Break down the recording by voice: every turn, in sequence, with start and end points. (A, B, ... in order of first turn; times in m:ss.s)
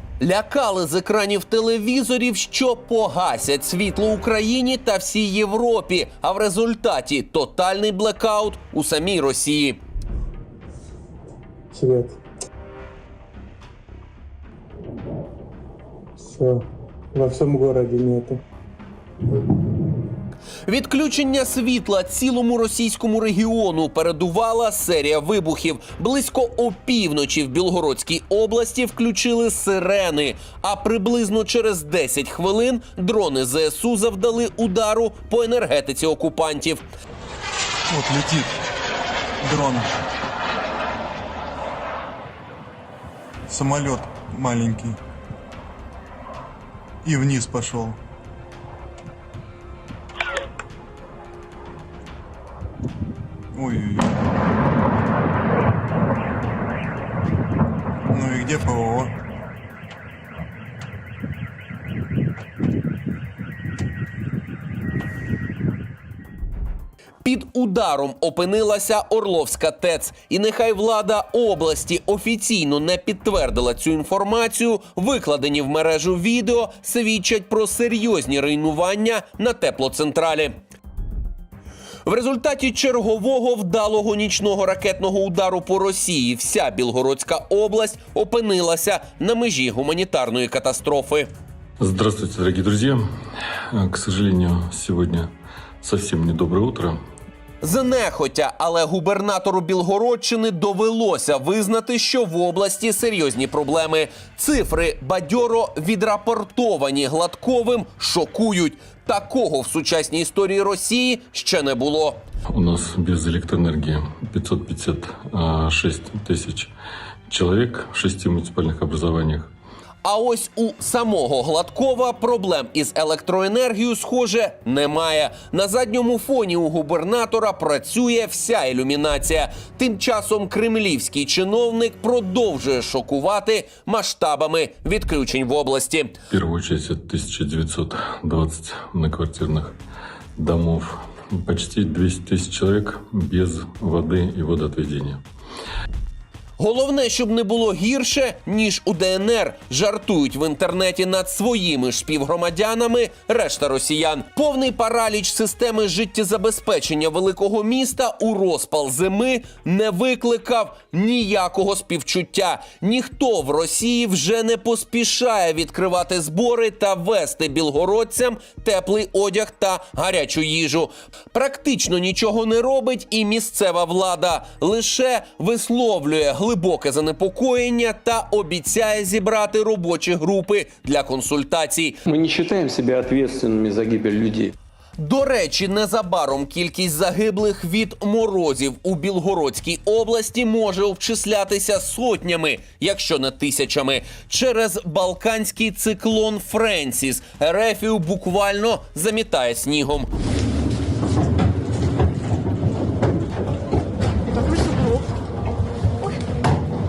0:00.2-0:09.8 A
0:11.7-0:12.2 B
0:16.2-0:16.6 B
0:17.1-0:18.4 B
0:20.7-0:36.8 A
0:37.8-0:38.6 C
0:39.4-0:39.9 C
0:43.5-0:45.0 C
0:47.0-0:48.0 C
0:53.5-0:54.1 C
0:58.1-0:59.1 C
1:07.2-1:20.6 A
1:22.0-1:31.3 A
1:31.8-1:33.1 D
1:33.7-1:37.0 D
1:37.6-1:52.2 A
1:52.5-1:56.7 D
1:57.3-1:59.5 D
2:00.0-2:16.1 A
2:16.3-2:19.8 D
2:20.4-2:25.2 D
2:26.6-3:02.0 A
3:02.1-3:04.5 E
3:05.0-3:20.1 A